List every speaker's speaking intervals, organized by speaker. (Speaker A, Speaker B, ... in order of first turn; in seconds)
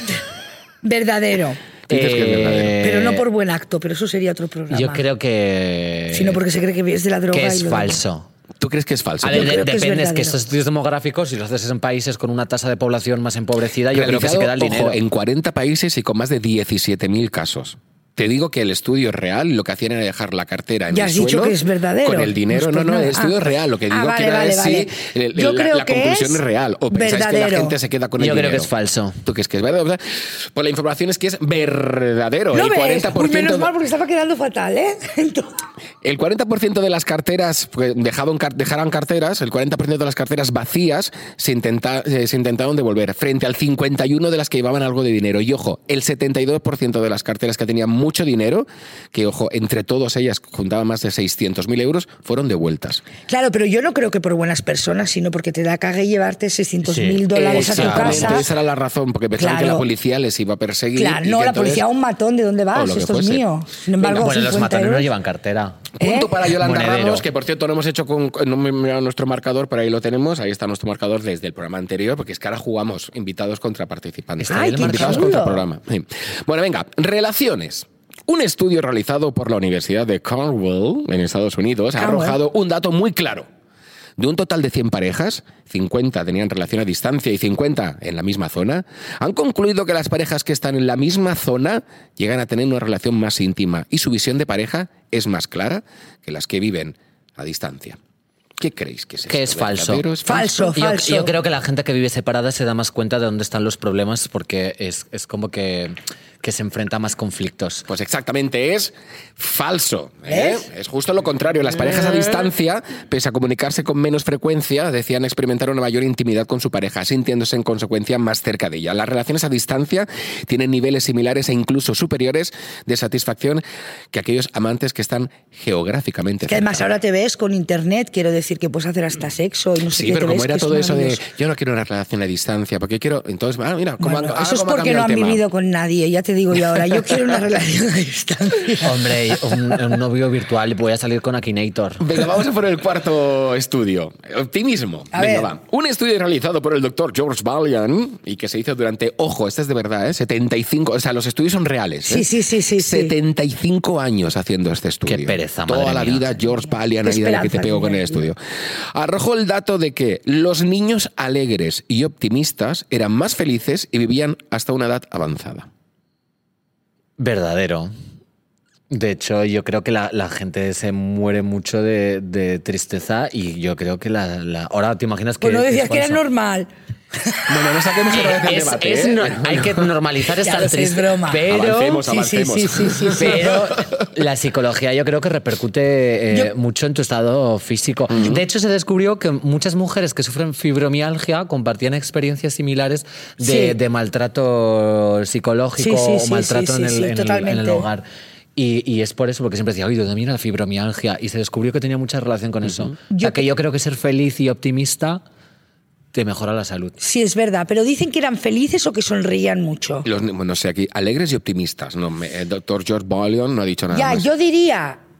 Speaker A: 0.8-1.6, 2.8-5.0, 6.1-8.0, 9.3-10.4, 20.9-27.8, 32.5-35.6, 53.3-58.5, 59.4-59.8, 61.0-65.1, 66.0-66.3, 74.5-75.6, 82.0-82.4, 100.2-101.3, 110.3-110.7, 126.5-131.2, 134.0-139.8, 145.1-145.5, 152.1-153.1, 156.6-158.3, 175.4-176.7, 177.2-177.5, 180.4-181.5, 182.0-183.7, 193.4-193.7, 195.8-197.9, 203.1-203.4, 207.0-210.1, 213.9-215.0
Speaker B: 1.9-2.8, 8.6-9.6, 13.9-28.7, 29.2-33.7, 36.0-53.0, 57.4-61.8, 62.7-63.4, 64.0-64.3, 66.0-83.5, 84.2-98.0, 98.6-100.8, 107.9-126.9, 129.9-135.4, 136.9-137.2, 142.0-158.4, 158.9-165.7, 177.5-179.9, 181.4-184.1, 188.1-188.4, 210.0-214.3
Speaker C: 1.9-3.2, 4.7-6.4, 7.3-8.3, 9.2-15.0, 28.2-29.2, 56.8-58.5, 64.1-65.9, 66.6-67.2, 74.4-75.4, 99.3-100.0, 100.8-107.9, 111.9-112.2, 138.8-142.0, 155.1-156.2, 167.2-167.9, 168.9-176.2, 178.1-182.1, 183.1-198.0, 198.6-205.2, 206.1-207.0